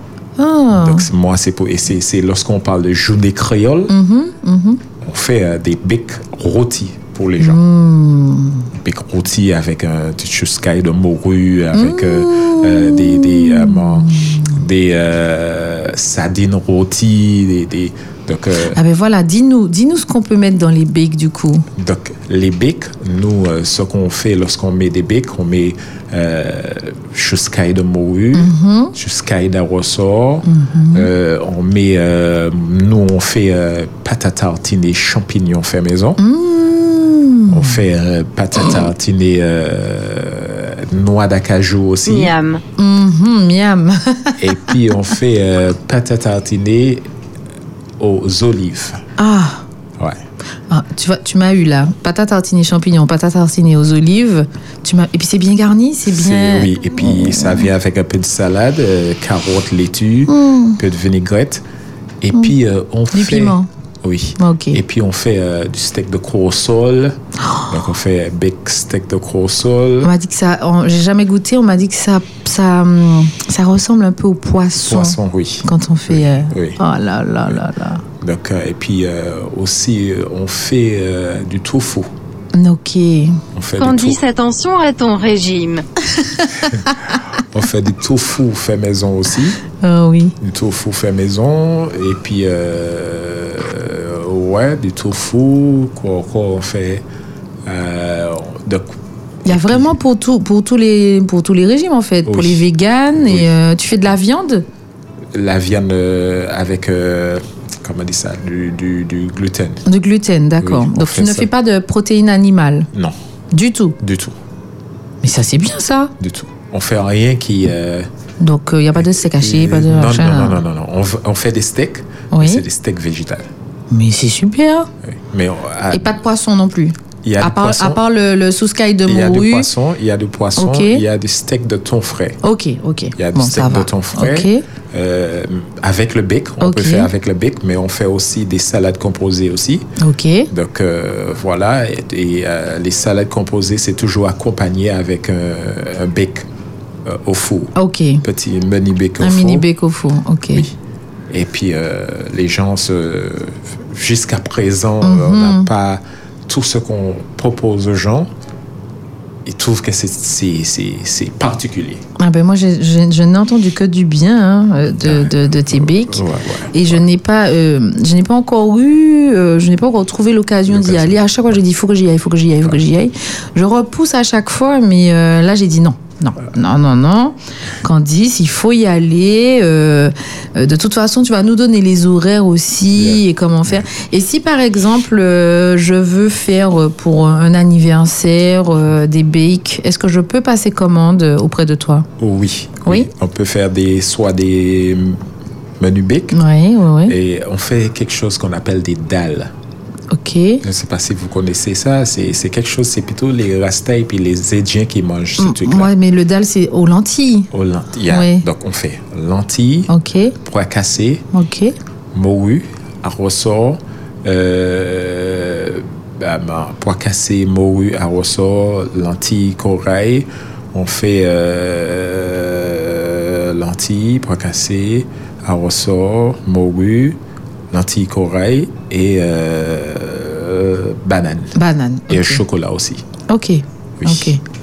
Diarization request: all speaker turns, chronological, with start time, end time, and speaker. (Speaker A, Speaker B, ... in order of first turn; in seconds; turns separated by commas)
Speaker A: 0.4-1.1, Speaker B: 0.7-3.9, Speaker A: 3.9-4.8, Speaker B: 5.0-7.6, Speaker A: 7.4-8.7, Speaker B: 8.7-18.8, Speaker A: 11.7-14.5, Speaker A: 18.7-21.6, Speaker B: 21.8-36.2, Speaker A: 28.3-28.9, Speaker A: 30.4-31.1, Speaker A: 36.2-37.8, Speaker B: 37.5-42.3, Speaker C: 42.1-42.6, Speaker A: 42.8-44.9, Speaker B: 44.4-47.1, Speaker B: 48.0-49.0, Speaker A: 49.2-49.6, Speaker A: 50.7-57.7, Speaker B: 56.0-61.6, Speaker A: 60.3-60.8, Speaker B: 62.2-67.2, Speaker A: 63.1-63.7, Speaker A: 64.4-64.8, Speaker B: 67.7-70.1, Speaker A: 70.0-78.0, Speaker B: 74.8-76.8, Speaker B: 78.2-82.1, Speaker A: 82.5-83.4, Speaker B: 83.5-84.2, Speaker C: 83.8-85.8, Speaker B: 87.4-89.6, Speaker A: 89.8-90.3, Speaker B: 90.4-97.0, Speaker B: 97.7-98.9, Speaker B: 99.4-99.9, Speaker A: 99.5-104.7, Speaker B: 102.2-103.5, Speaker B: 105.3-109.8, Speaker A: 109.8-112.9, Speaker B: 110.6-111.5, Speaker A: 113.5-114.0, Speaker B: 114.0-114.3, Speaker A: 115.2-116.1, Speaker B: 116.2-118.1, Speaker A: 118.4-120.6, Speaker B: 119.0-123.5, Speaker A: 122.3-122.6, Speaker A: 123.9-124.9, Speaker B: 125.0-126.2, Speaker A: 125.9-129.7, Speaker B: 127.2-128.0, Speaker B: 129.1-132.4, Speaker A: 130.6-131.0, Speaker A: 132.4-134.6, Speaker B: 133.2-139.9, Speaker A: 136.6-137.1, Speaker A: 140.0-140.5, Speaker B: 140.5-146.4, Speaker B: 147.1-149.7, Speaker A: 147.7-148.2, Speaker A: 149.2-150.7, Speaker B: 151.3-158.3, Speaker A: 155.0-155.7, Speaker B: 159.4-162.0, Speaker A: 162.2-192.1, Speaker B: 165.0-167.0, Speaker B: 170.7-171.2, Speaker B: 182.9-183.2, Speaker B: 192.2-195.2, Speaker B: 195.8-196.4, Speaker A: 196.3-197.2, Speaker B: 197.0-199.5, Speaker A: 200.1-200.6, Speaker B: 200.6-205.9, Speaker A: 205.4-207.5, Speaker B: 207.5-209.9, Speaker A: 208.1-208.4, Speaker A: 209.9-210.3, Speaker B: 210.4-211.2, Speaker A: 211.3-211.7, Speaker B: 212.1-227.2, Speaker B: 227.7-231.6, Speaker A: 231.5-232.4, Speaker B: 232.1-233.0, Speaker A: 233.3-234.4, Speaker B: 234.0-234.4